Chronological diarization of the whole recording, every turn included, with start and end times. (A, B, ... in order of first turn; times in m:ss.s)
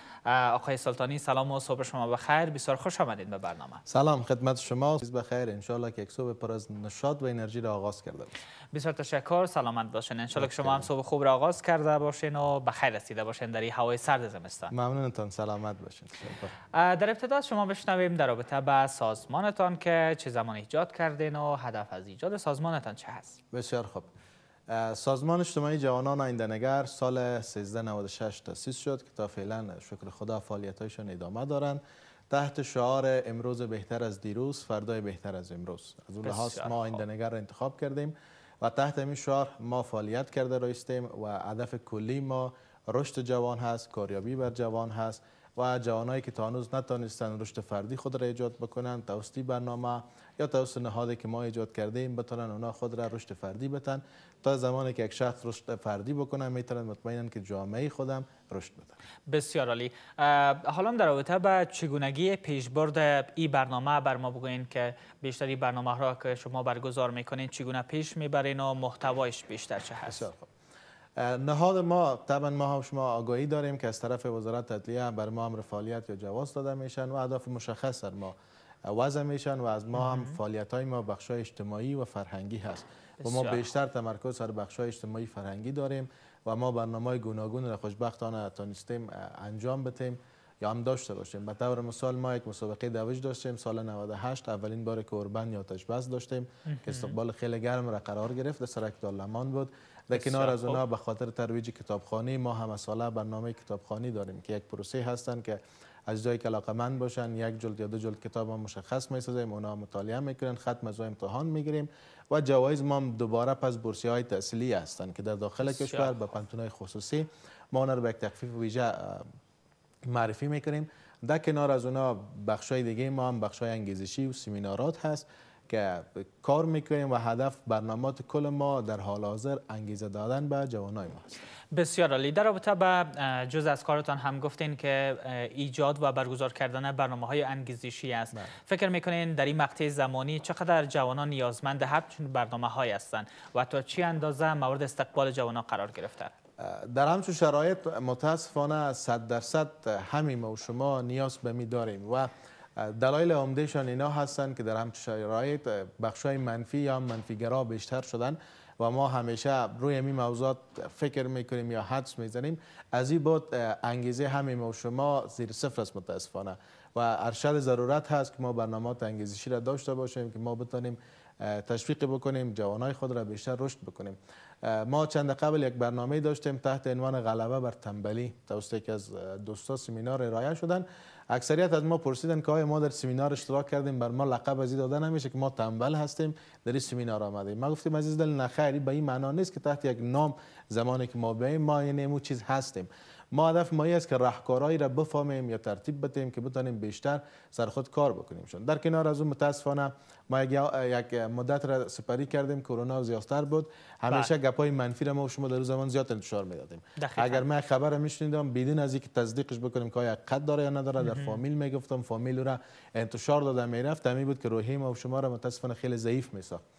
0:00.3-0:03.8 A
0:03.9-0:08.3 B
0:08.7-0:14.7 A
0:10.3-0:10.9 B
0:14.7-0:16.5 B
0:16.7-0:23.4 A
0:23.5-0:24.1 B
0:24.7-0:59.0 B
0:36.2-0:37.0 A
0:59.3-1:10.2 A
1:10.1-1:10.5 B
1:11.2-1:18.3 B
1:18.9-1:59.3 B
1:19.9-1:20.4 A
1:23.2-1:23.7 A
1:36.6-1:37.2 A
1:40.1-1:40.8 A
1:55.6-1:56.2 A
2:00.1-2:11.4 B
2:11.7-2:26.3 A
2:26.6-3:36.6 B
3:27.0-3:27.4 A
3:31.0-3:31.4 A